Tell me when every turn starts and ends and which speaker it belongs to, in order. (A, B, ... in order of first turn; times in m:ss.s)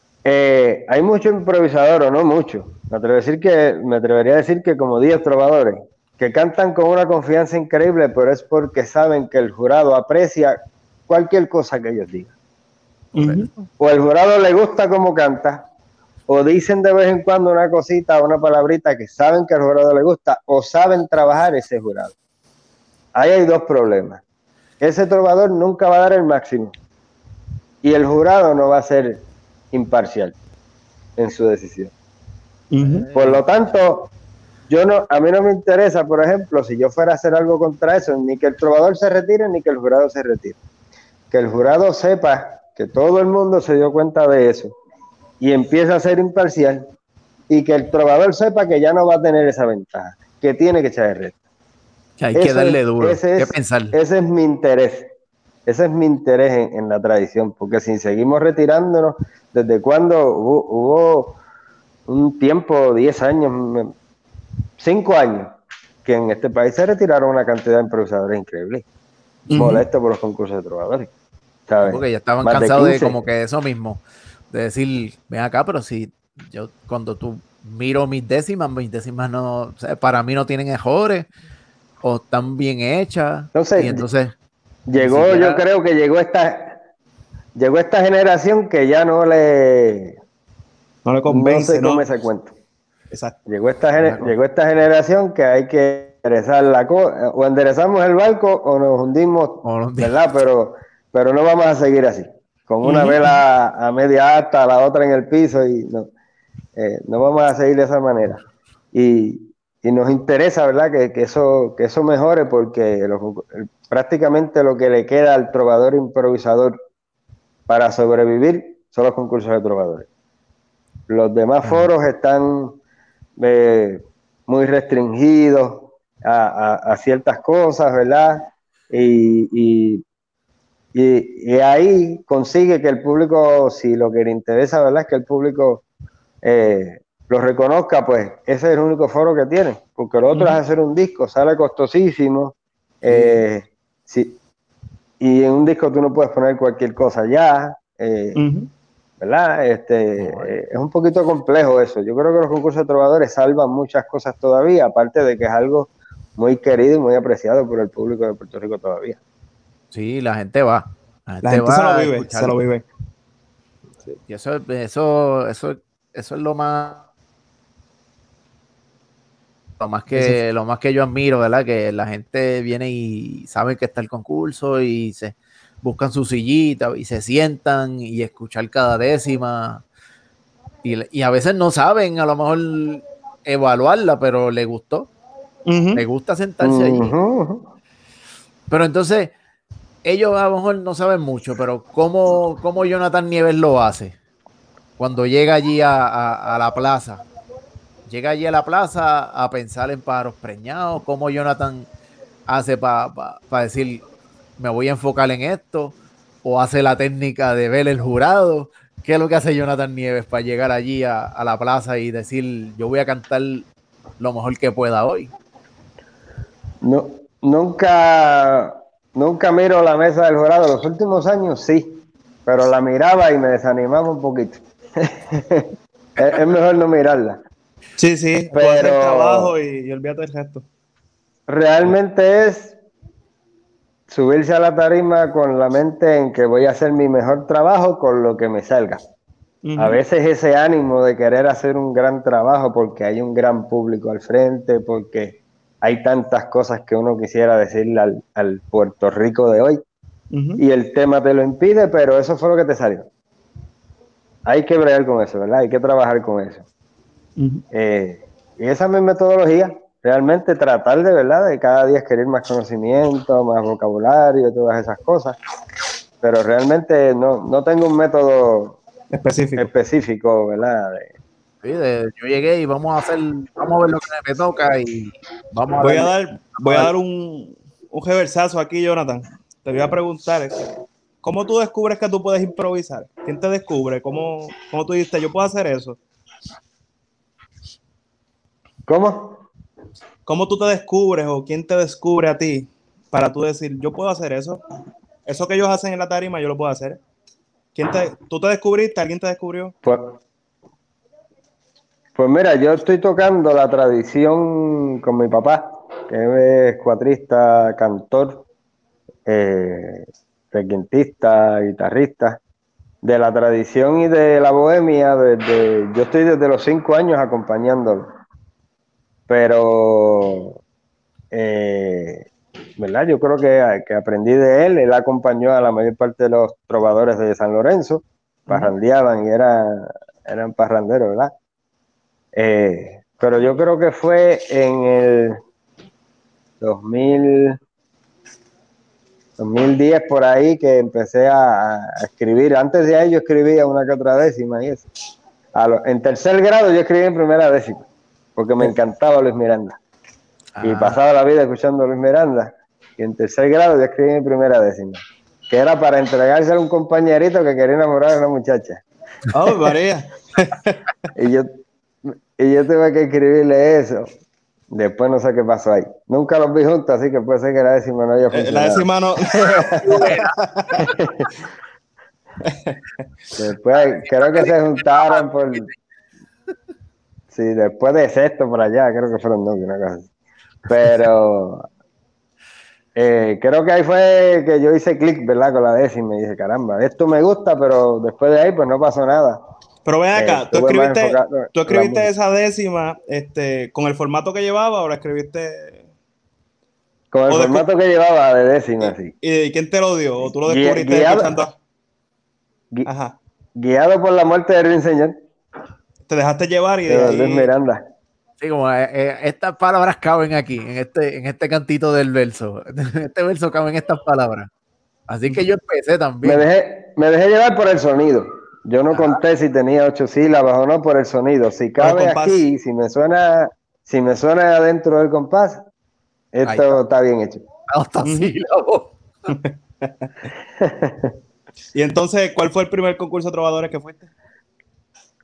0:00.2-0:10.6 A
0:11.1-0:12.3 A
0:13.1-0:13.5 B
0:13.2-0:13.5 C
0:13.8-0:15.6 A
0:16.3-0:22.1 A
0:23.2-0:24.2 A
0:24.8-0:26.7 A
0:27.8-0:30.4 A
0:31.2-0:31.9 A
0:32.7-0:33.1 B
0:32.8-0:33.4 C
0:33.1-0:34.1 A
0:34.7-0:40.6 A
0:41.3-0:44.7 A
0:45.4-0:46.8 A
0:47.5-0:51.3 A
0:52.2-0:53.9 C
0:52.4-0:55.1 A
0:55.6-1:01.4 A
1:02.1-1:03.9 A
1:04.8-1:08.8 A
1:09.5-1:09.8 B
1:09.5-1:11.1 A
1:11.7-1:13.2 A
1:11.8-1:21.3 C
1:22.0-1:24.3 C
1:23.5-1:24.0 A
1:24.9-1:26.8 A
1:25.0-1:25.6 C
1:27.6-1:30.2 A
1:31.0-1:32.1 B
1:31.3-1:32.5 A
1:33.1-1:33.4 B
1:33.5-1:46.1 A
1:34.0-1:34.3 C
1:39.6-1:40.1 C
1:42.8-1:43.3 B
1:46.8-1:56.7 A
1:57.7-2:00.1 A
2:01.1-2:02.8 A
2:01.6-2:01.9 C
2:03.4-2:10.0 A
2:10.9-2:15.8 A
2:16.4-2:24.4 A
2:20.3-2:20.6 B
2:25.2-2:28.4 A
2:28.4-2:28.7 B
2:29.2-2:39.2 A
2:30.2-2:30.5 C
2:39.9-2:42.6 C
2:41.4-2:42.8 B
2:44.2-2:47.0 C
2:49.8-2:59.8 C
2:50.1-2:50.4 B
3:00.8-3:05.1 C
3:05.6-3:06.0 B
3:06.0-3:07.1 C
3:06.6-3:07.7 A
3:08.7-3:09.3 C
3:10.0-3:14.2 C
3:15.0-3:17.2 C
3:18.0-3:21.9 C
3:22.5-3:24.0 C
3:24.6-3:33.7 C
3:34.2-3:35.3 C
3:36.8-3:47.4 A
3:48.0-3:50.6 B
3:48.5-3:49.5 A
3:51.5-3:52.8 A
3:54.1-3:59.0 A
3:59.6-4:00.0 B
3:59.8-4:09.8 A
4:10.3-4:10.6 B
4:10.6-4:13.1 A
4:14.5-4:16.6 A
4:17.4-4:17.6 B
4:17.7-4:25.4 A
4:26.2-4:28.8 A
4:29.1-4:29.7 B
4:29.6-4:31.1 A
4:31.6-4:36.9 C
4:35.8-4:40.7 B
4:41.2-4:46.0 B
4:48.9-4:49.4 A
4:50.2-4:54.6 B
4:55.2-4:57.0 B
4:57.7-4:59.8 B
4:59.8-5:00.2 A
5:02.2-5:08.4 A
5:09.2-5:12.4 A
5:13.0-5:18.1 A
5:19.3-5:20.6 A
5:21.3-5:31.3 A
5:32.4-5:35.4 A
5:36.6-5:37.6 A
5:39.4-5:44.9 A
5:45.6-5:49.8 A
5:50.6-5:51.0 C
5:50.6-5:58.8 A
5:59.3-6:00.8 B
6:01.2-6:04.1 A
6:04.7-6:10.1 A
6:08.3-6:10.8 B
6:09.8-6:10.4 C
6:10.8-6:11.3 A
6:12.4-6:12.8 B
6:13.4-6:15.7 A
6:17.3-6:20.1 A
6:20.6-6:21.7 A
6:23.0-6:29.4 A
6:29.8-6:35.8 B
6:30.2-6:32.1 A
6:37.1-6:39.1 A
6:37.3-6:37.6 B
6:38.8-6:41.5 B
6:40.4-6:41.4 A
6:42.8-6:43.2 B
6:43.6-6:45.1 A
6:46.1-6:47.5 B
6:46.9-6:47.8 A
6:48.4-6:54.5 C
6:55.1-6:56.4 C
6:56.2-7:05.6 A
6:58.9-6:59.2 C
7:01.8-7:02.4 B
7:06.3-7:07.4 A
7:06.4-7:06.8 C
7:07.7-7:08.9 C
7:08.0-7:08.3 B
7:09.3-7:10.1 B
7:10.6-7:11.1 A
7:11.7-7:14.1 B